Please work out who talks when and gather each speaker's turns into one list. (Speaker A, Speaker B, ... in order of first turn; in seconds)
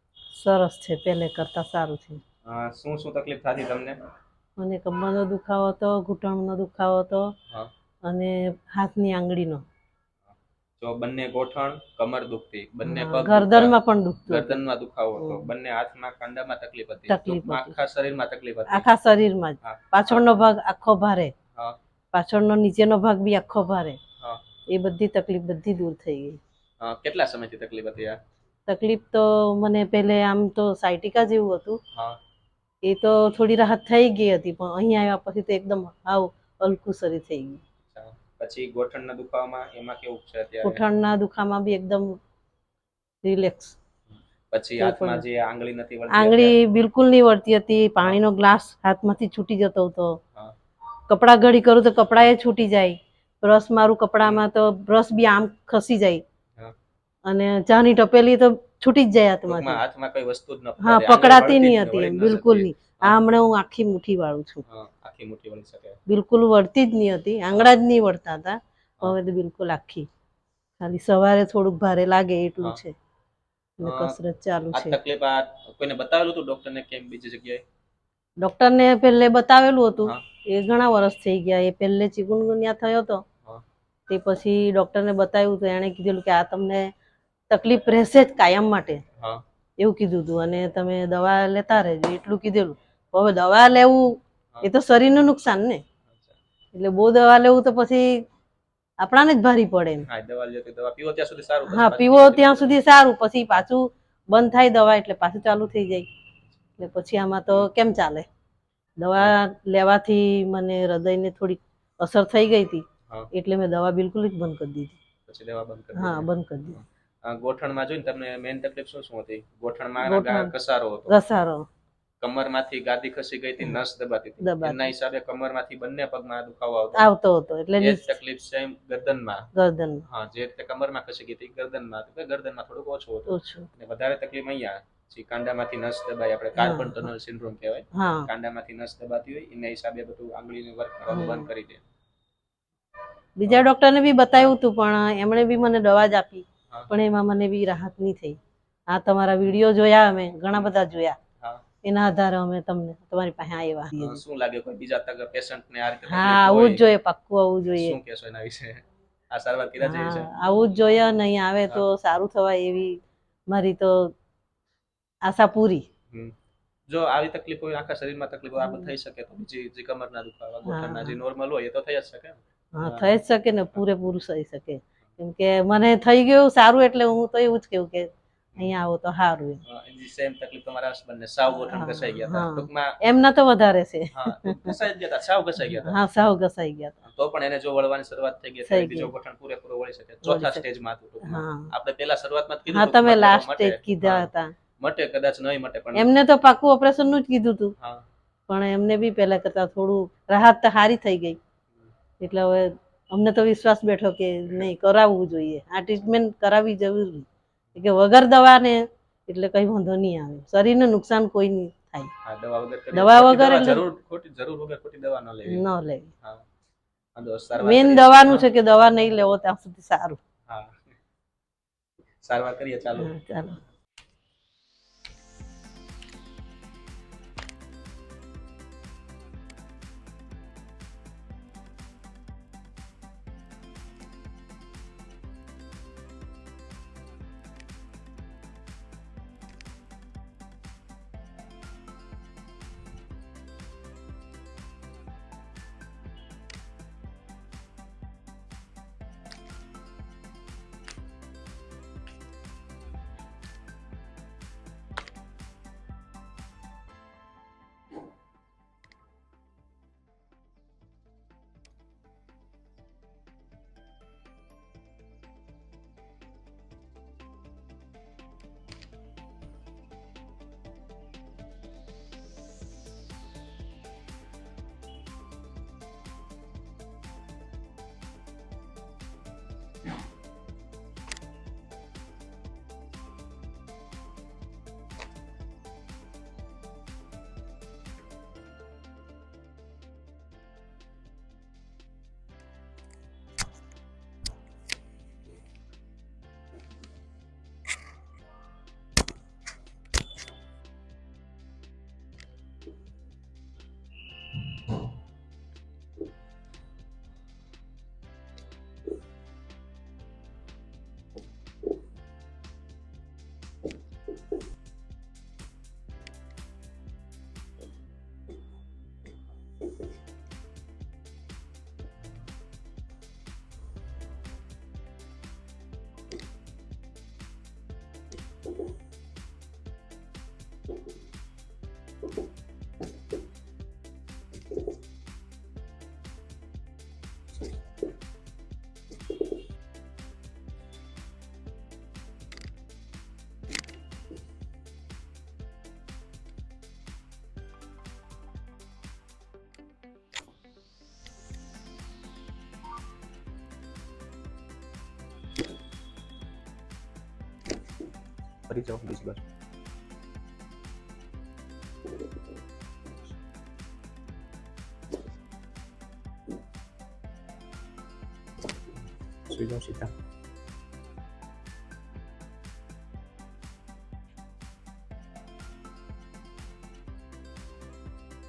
Speaker A: 0.3-2.2, 4.6-7.3, 8.1-9.6, 12.8-14.6, 15.2-15.5, 17.1-17.8, 18.7-21.3, 22.1-24.0, 24.7-26.4, 28.7-31.8, 32.8-37.6, 40.6-42.1, 43.2-43.8, 44.8-45.2, 46.1-50.2, 51.1-56.2, 57.3-59.8, 60.8-64.6, 66.1-70.1, 70.8-72.9, 73.8-75.0, 78.4-83.2, 84.1-86.9, 87.5-89.0, 89.8-95.8, 96.7-98.2, 99.0-100.1, 101.7-106.1, 106.8-108.3, 109.0-115.0, 116.0-116.8, 120.0-120.5, 121.1-121.7, 124.4-124.9, 127.0-128.2, 129.5-130.0, 133.3-133.7, 136.6-137.1, 137.9-138.3, 141.1-141.5, 143.4-148.4, 148.9-151.2, 151.8-154.2, 156.1-158.0, 159.8-162.9, 163.5-164.1, 165.2-165.9, 168.6-168.9, 170.7-171.2, 172.8-179.6, 181.5-184.8, 185.8-187.0, 188.7-189.1, 190.2-190.6, 191.2-191.7, 192.7-194.5, 196.0-197.7, 198.5-201.4, 202.2-212.1, 212.9-213.8, 215.5-216.1, 217.6-220.2, 223.0-223.6
Speaker B: 2.5-4.0, 10.8-13.8, 14.3-18.9, 19.6-20.2, 24.2-24.4, 26.8-28.2, 31.9-32.2, 37.9-40.8, 44.5-46.6, 59.5-63.2, 64.7-66.0, 73.8-74.2, 74.7-77.6, 100.0-102.8, 115.3-121.1, 122.2-127.1, 127.8-129.5, 130.1-141.8, 154.0-156.8, 157.7-160.3, 166.9-173.1, 179.7-183.0, 184.1-186.0, 187.0-196.1, 197.8-198.1, 212.2-215.6, 217.2-218.5, 220.5-220.8, 222.2-223.1, 358.5-359.2, 369.3-369.9